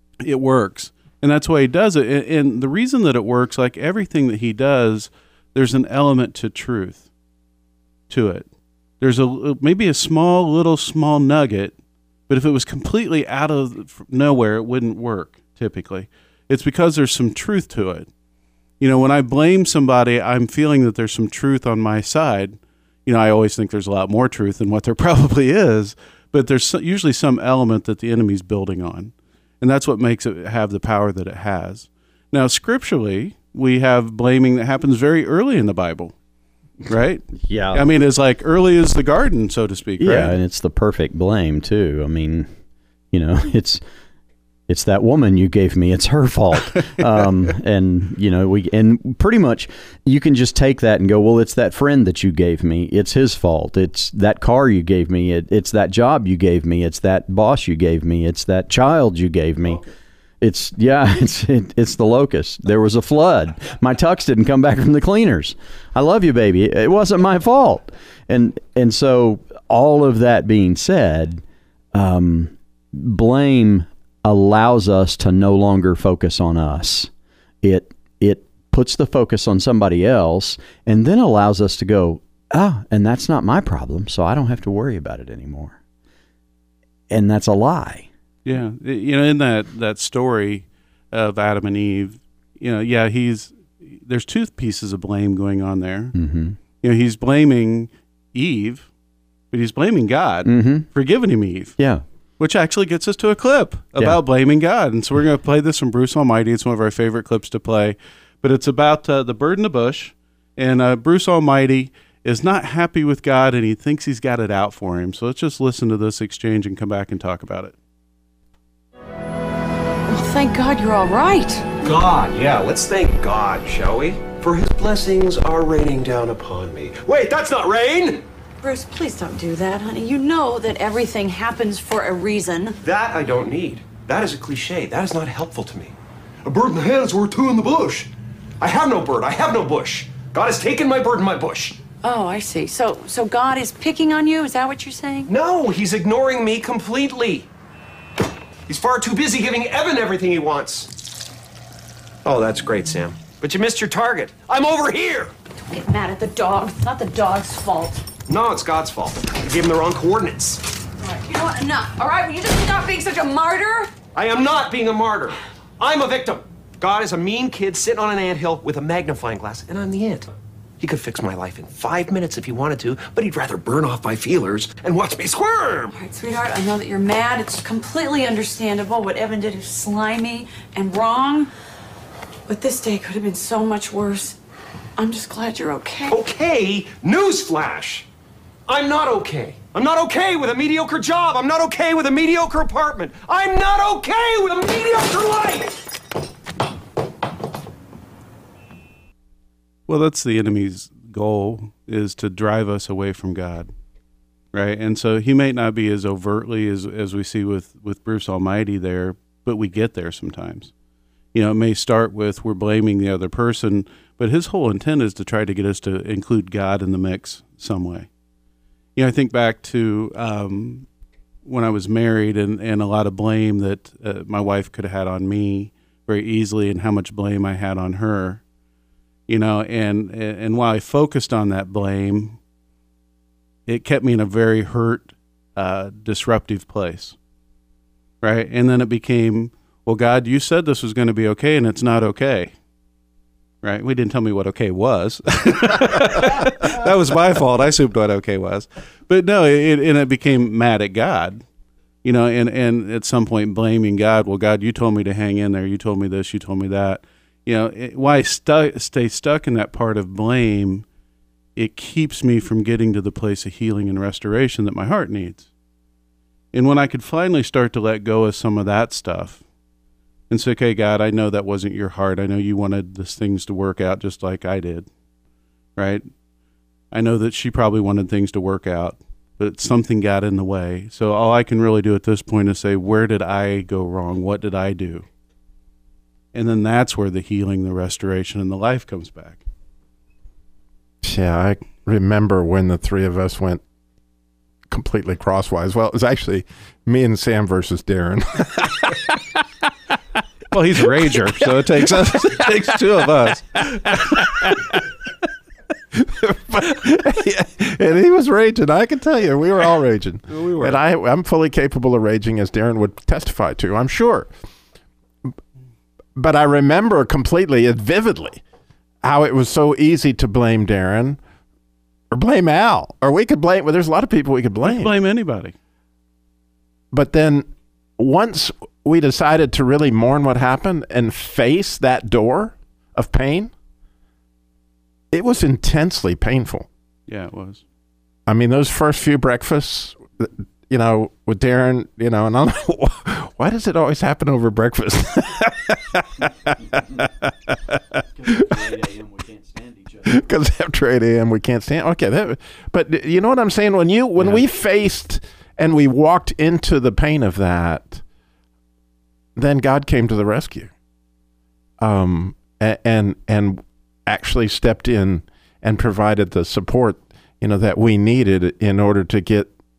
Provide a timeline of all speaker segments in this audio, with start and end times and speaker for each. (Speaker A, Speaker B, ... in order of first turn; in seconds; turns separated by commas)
Speaker A: 0.2-7.0, Speaker A: 8.1-8.5, Speaker A: 9.0-11.8, Speaker A: 12.3-18.1, Speaker A: 18.8-36.1, Speaker A: 36.8-40.4, Speaker B: 37.4-37.8, Speaker B: 40.0-42.5, Speaker B: 43.1-43.8, Speaker B: 44.7-59.8, Speaker B: 60.4-77.1, Speaker B: 77.6-85.8, Speaker B: 87.1-88.1, Speaker A: 88.4-96.1, Speaker B: 96.1-96.6, Speaker A: 96.8-98.9, Speaker A: 99.5-101.8, Speaker B: 100.4-100.9, Speaker B: 101.8-102.0, Speaker A: 102.4-117.7, Speaker C: 120.1-121.7, Speaker D: 121.8-128.2, Speaker C: 128.6-132.8, Speaker D: 132.8-135.9, Speaker D: 136.4-141.8, Speaker C: 142.0-145.3, Speaker D: 145.3-147.5, Speaker D: 148.7-150.9, Speaker D: 152.2-155.3, Speaker C: 155.7-158.0, Speaker D: 158.3-160.6, Speaker C: 161.0-163.9, Speaker D: 164.1-170.3, Speaker D: 170.8-175.9, Speaker C: 175.9-181.5, Speaker C: 182.5-184.4, Speaker C: 185.0-186.2, Speaker D: 186.1-188.1, Speaker D: 188.7-195.8, Speaker A: 199.9-203.7, Speaker A: 204.5-210.7, Speaker A: 211.3-218.1, Speaker A: 218.9-220.9, Speaker A: 221.4-228.4, Speaker A: 229.3-232.4, Speaker A: 233.7-237.2, Speaker A: 238.2-242.5, Speaker A: 243.6-251.4, Speaker A: 252.0-260.8, Speaker A: 261.6-265.5, Speaker A: 266.5-269.4, Speaker A: 270.3-274.9, Speaker A: 275.8-276.1, Speaker A: 276.9-285.1, Speaker A: 286.3-289.4, Speaker E: 291.0-293.6, Speaker E: 294.7-299.0, Speaker A: 300.5-304.3, Speaker E: 301.7-302.7, Speaker E: 303.7-304.8, Speaker E: 305.9-314.3, Speaker A: 310.3-310.8, Speaker E: 316.1-318.4, Speaker E: 319.0-321.2, Speaker E: 322.1-324.9, Speaker A: 324.6-325.5, Speaker E: 326.9-327.5, Speaker E: 328.0-333.5, Speaker E: 335.1-336.7, Speaker A: 337.1-337.6, Speaker E: 338.3-347.1, Speaker B: 348.2-350.1, Speaker E: 348.3-348.6, Speaker E: 350.1-358.0, Speaker A: 354.2-354.4, Speaker E: 359.4-360.7, Speaker E: 361.8-369.5